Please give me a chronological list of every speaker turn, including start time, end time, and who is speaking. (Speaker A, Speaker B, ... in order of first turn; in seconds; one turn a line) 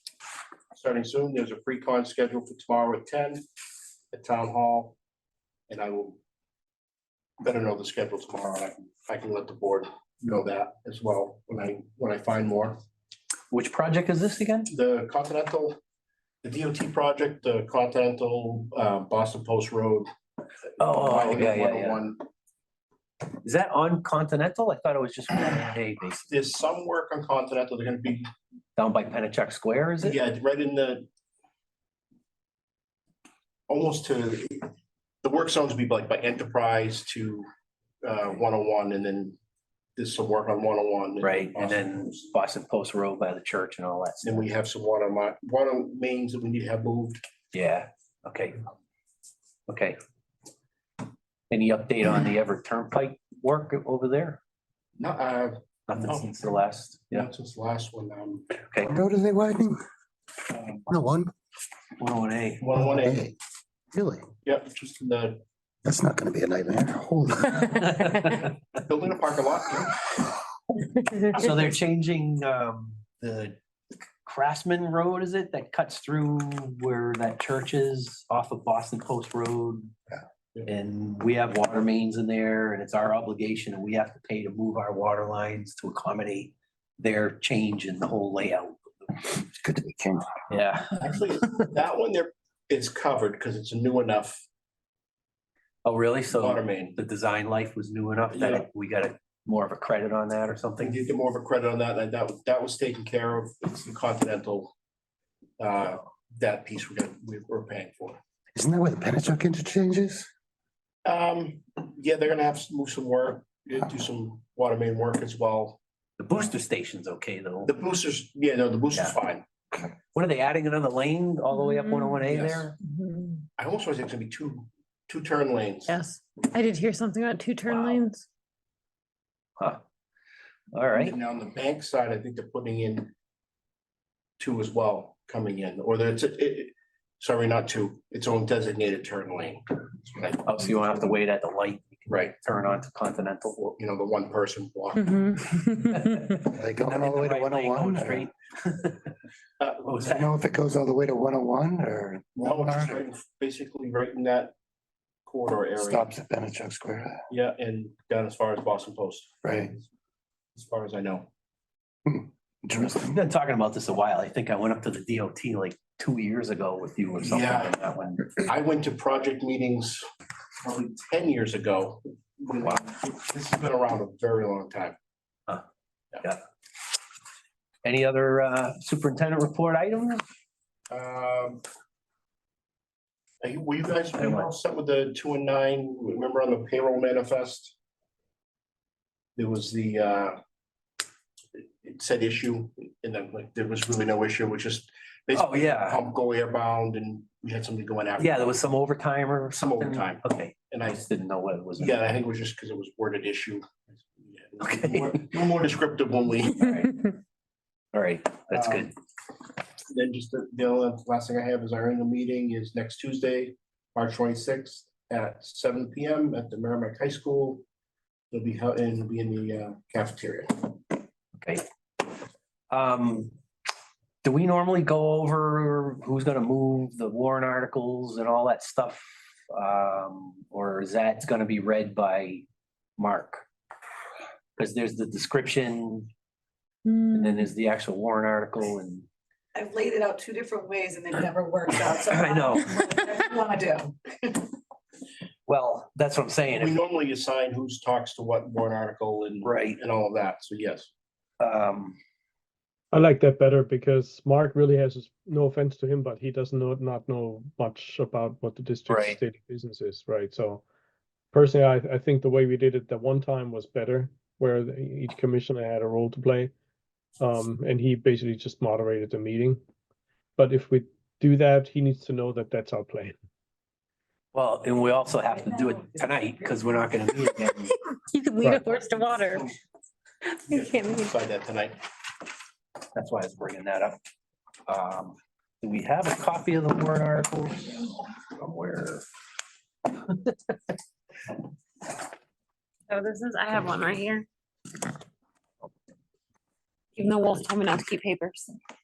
Speaker A: 0.7-3.4
Speaker A: 4.1-5.0
Speaker A: 5.7-6.2
Speaker A: 7.4-12.8
Speaker B: 13.5-14.7
Speaker A: 14.7-15.8
Speaker A: 16.4-20.1
Speaker A: 20.8-22.2
Speaker B: 20.8-22.0
Speaker B: 23.4-26.3
Speaker A: 26.3-28.3
Speaker B: 28.8-30.2
Speaker A: 30.0-31.1
Speaker A: 33.7-34.7
Speaker A: 35.2-37.5
Speaker A: 38.0-39.4
Speaker A: 40.0-42.3
Speaker B: 41.2-44.4
Speaker A: 44.2-47.2
Speaker B: 47.5-48.6
Speaker B: 49.7-50.0
Speaker B: 51.5-54.4
Speaker A: 55.0-56.3
Speaker B: 55.9-57.3
Speaker A: 57.1-58.5
Speaker B: 58.7-59.0
Speaker C: 58.8-59.8
Speaker A: 60.5-60.8
Speaker C: 60.9-61.3
Speaker B: 62.0-62.6
Speaker A: 62.6-63.2
Speaker C: 62.8-63.4
Speaker C: 63.9-64.2
Speaker A: 64.5-65.4
Speaker C: 65.8-67.9
Speaker B: 67.8-68.5
Speaker A: 68.8-70.0
Speaker B: 71.3-73.6
Speaker B: 74.3-79.9
Speaker B: 80.7-88.8
Speaker C: 89.4-90.3
Speaker B: 90.5-90.9
Speaker A: 91.0-94.4
Speaker B: 95.8-101.0
Speaker A: 96.4-97.0
Speaker A: 98.3-98.7
Speaker A: 100.8-104.7
Speaker A: 105.6-108.2
Speaker C: 108.5-110.3
Speaker A: 111.0-115.8
Speaker B: 116.2-117.7
Speaker A: 117.7-119.5
Speaker B: 120.2-122.7
Speaker D: 121.5-122.2
Speaker A: 122.3-122.7
Speaker D: 122.8-123.5
Speaker A: 123.6-126.0
Speaker D: 125.9-128.2
Speaker B: 127.7-128.0
Speaker B: 130.7-131.2
Speaker A: 131.0-133.1
Speaker A: 134.4-140.5
Speaker B: 140.4-143.6
Speaker A: 142.1-142.3
Speaker A: 143.6-145.5
Speaker D: 145.4-145.9
Speaker B: 145.8-149.1
Speaker C: 146.4-148.3
Speaker A: 149.6-150.1
Speaker B: 149.9-150.3
Speaker C: 150.1-153.0
Speaker A: 152.4-154.5
Speaker A: 155.3-156.1
Speaker C: 155.8-157.2
Speaker A: 157.3-159.8
Speaker C: 159.4-159.7
Speaker A: 160.6-161.3
Speaker C: 162.1-163.2
Speaker B: 162.8-168.4
Speaker A: 167.2-167.8
Speaker A: 168.4-170.1
Speaker A: 170.6-175.0
Speaker B: 177.8-180.2
Speaker A: 180.9-181.6
Speaker A: 183.4-187.8
Speaker B: 184.2-184.5
Speaker A: 189.4-190.4
Speaker A: 191.6-198.6
Speaker B: 195.3-196.0
Speaker B: 198.2-202.0
Speaker A: 199.5-201.0
Speaker A: 201.8-206.8
Speaker B: 204.6-205.2
Speaker B: 206.6-207.1
Speaker B: 207.9-208.9
Speaker A: 208.5-208.9
Speaker A: 209.9-217.6
Speaker A: 218.3-220.8
Speaker B: 222.7-223.3
Speaker B: 224.2-232.4
Speaker B: 233.0-233.4
Speaker B: 234.6-236.1
Speaker D: 236.9-237.5
Speaker B: 237.1-239.1
Speaker E: 239.6-244.4
Speaker B: 241.9-243.0
Speaker B: 245.5-246.7
Speaker A: 246.5-250.9
Speaker B: 249.4-249.8
Speaker B: 251.4-252.0
Speaker F: 252.9-260.6
Speaker B: 258.9-259.2
Speaker F: 261.3-266.5
Speaker F: 267.2-269.6
Speaker F: 270.4-273.1
Speaker B: 274.3-277.7
Speaker D: 278.1-279.5
Speaker F: 278.4-278.8
Speaker A: 280.5-281.8
Speaker D: 280.5-281.1
Speaker B: 282.9-284.0
Speaker B: 284.7-289.0
Speaker B: 290.1-290.4
Speaker D: 292.9-294.3
Speaker D: 297.0-298.5